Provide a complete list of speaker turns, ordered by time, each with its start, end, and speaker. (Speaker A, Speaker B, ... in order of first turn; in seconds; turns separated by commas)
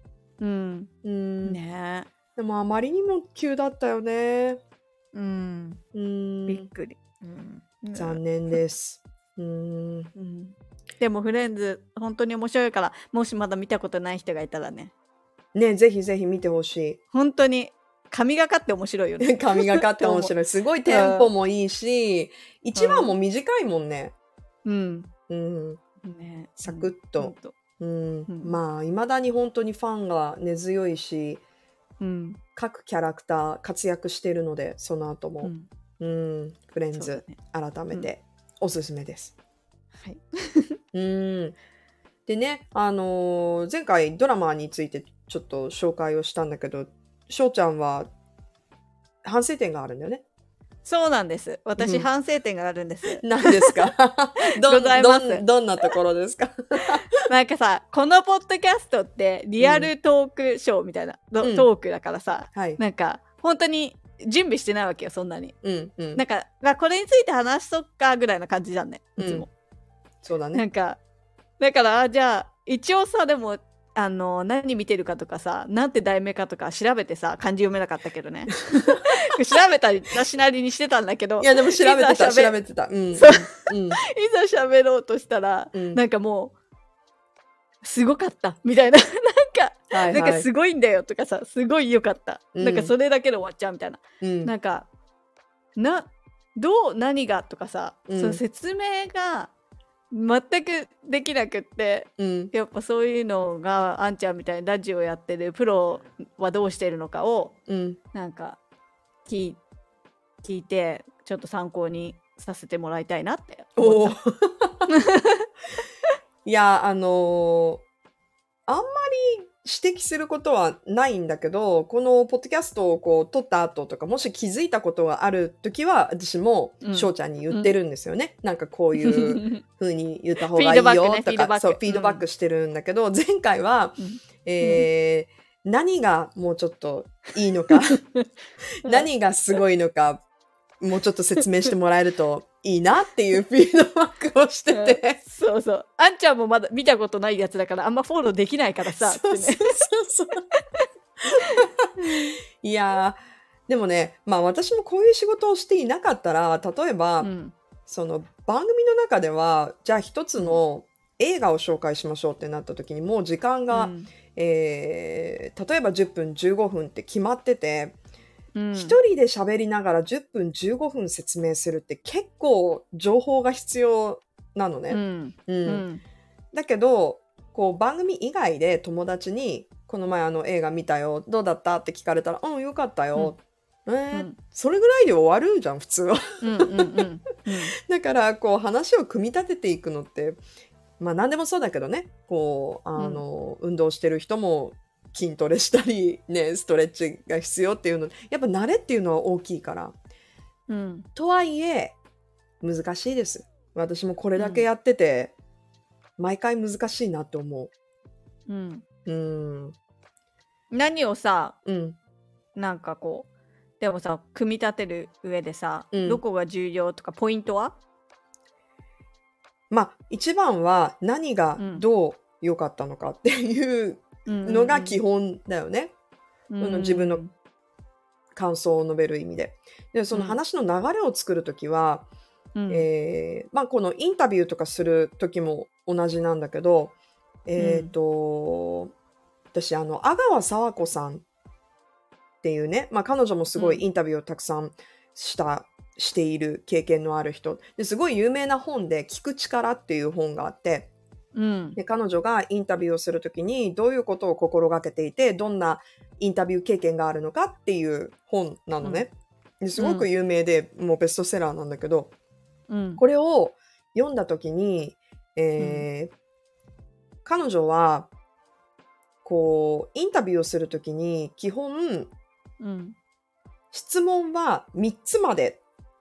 Speaker A: 0.4-0.9, Speaker B: 1.0-1.6, Speaker A: 1.4-2.1, Speaker B: 2.4-4.6, Speaker A: 5.1-5.8, Speaker B: 5.9-6.7, Speaker A: 6.5-8.6, Speaker B: 7.9-10.1, Speaker A: 10.1-14.9, Speaker B: 15.5-17.0, Speaker A: 17.1-20.3, Speaker B: 19.2-24.1, Speaker A: 20.9-21.3, Speaker A: 22.7-23.1, Speaker A: 24.6-25.1, Speaker B: 25.3-25.8, Speaker A: 26.0-27.5, Speaker B: 26.6-31.4, Speaker A: 28.3-28.6, Speaker A: 32.0-32.4, Speaker B: 32.5-39.3, Speaker A: 35.4-35.7, Speaker A: 36.9-37.4, Speaker A: 40.0-40.8, Speaker B: 40.9-41.5, Speaker B: 42.3-48.1, Speaker B: 49.2-50.2, Speaker A: 50.8-53.9, Speaker B: 51.8-52.1, Speaker B: 53.2-57.0, Speaker A: 54.5-55.4, Speaker A: 57.2-65.5, Speaker B: 59.6-59.9, Speaker B: 61.4-61.7, Speaker B: 62.5-62.8, Speaker B: 65.6-66.2, Speaker A: 66.1-69.5, Speaker B: 69.2-69.5, Speaker B: 70.2-70.6, Speaker A: 70.5-71.0, Speaker A: 71.6-82.6, Speaker B: 81.4-84.0, Speaker A: 83.1-86.5, Speaker B: 85.7-86.0, Speaker A: 87.8-94.9, Speaker B: 89.9-90.5, Speaker B: 92.5-92.9, Speaker B: 94.2-94.5, Speaker A: 95.8-99.5, Speaker B: 98.1-98.4, Speaker A: 100.1-107.5, Speaker B: 102.2-102.5, Speaker B: 107.7-108.0, Speaker A: 108.1-108.6, Speaker A: 109.2-109.6, Speaker A: 110.4-114.2, Speaker B: 113.8-114.9, Speaker A: 114.9-115.5, Speaker B: 116.4-117.8, Speaker B: 118.7-138.0, Speaker A: 126.8-127.7, Speaker A: 129.0-129.6, Speaker A: 130.4-132.2, Speaker A: 134.0-134.9, Speaker A: 137.7-138.2, Speaker B: 138.8-140.2, Speaker B: 140.8-145.2, Speaker A: 144.7-149.9, Speaker B: 148.9-150.4, Speaker A: 150.5-150.8, Speaker B: 151.2-151.9, Speaker A: 151.3-152.4, Speaker B: 152.6-157.3, Speaker A: 157.2-157.5, Speaker B: 157.9-167.9, Speaker A: 163.7-164.1, Speaker A: 168.5-169.0, Speaker B: 168.7-175.8, Speaker A: 174.9-176.0, Speaker B: 176.5-187.0, Speaker A: 184.1-184.4, Speaker A: 186.4-187.8, Speaker B: 187.8-190.4, Speaker B: 191.0-199.9, Speaker A: 193.0-193.2, Speaker A: 200.7-201.1, Speaker B: 201.1-201.9, Speaker B: 202.6-205.3, Speaker A: 204.3-204.7, Speaker B: 206.2-207.7, Speaker A: 208.5-208.8, Speaker B: 209.1-209.7, Speaker A: 210.7-211.6, Speaker B: 211.6-212.0, Speaker A: 212.6-213.3, Speaker A: 213.8-217.8, Speaker B: 215.9-216.2, Speaker B: 219.7-225.9, Speaker A: 221.6-221.8, Speaker A: 224.2-225.0, Speaker A: 226.5-227.3, Speaker B: 226.6-227.2, Speaker B: 228.3-232.1, Speaker A: 230.1-230.4, Speaker A: 232.6-232.8, Speaker B: 232.7-236.9, Speaker B: 237.4-238.9, Speaker A: 237.6-237.9, Speaker B: 239.5-241.2, Speaker B: 242.4-250.9, Speaker A: 243.6-243.8, Speaker A: 251.3-251.8, Speaker B: 251.8-262.1, Speaker A: 259.8-260.1, Speaker A: 262.7-263.0, Speaker B: 263.0-266.1, Speaker A: 265.6-265.9, Speaker B: 267.2-268.1, Speaker B: 269.2-272.1, Speaker A: 272.6-272.9, Speaker B: 273.7-275.6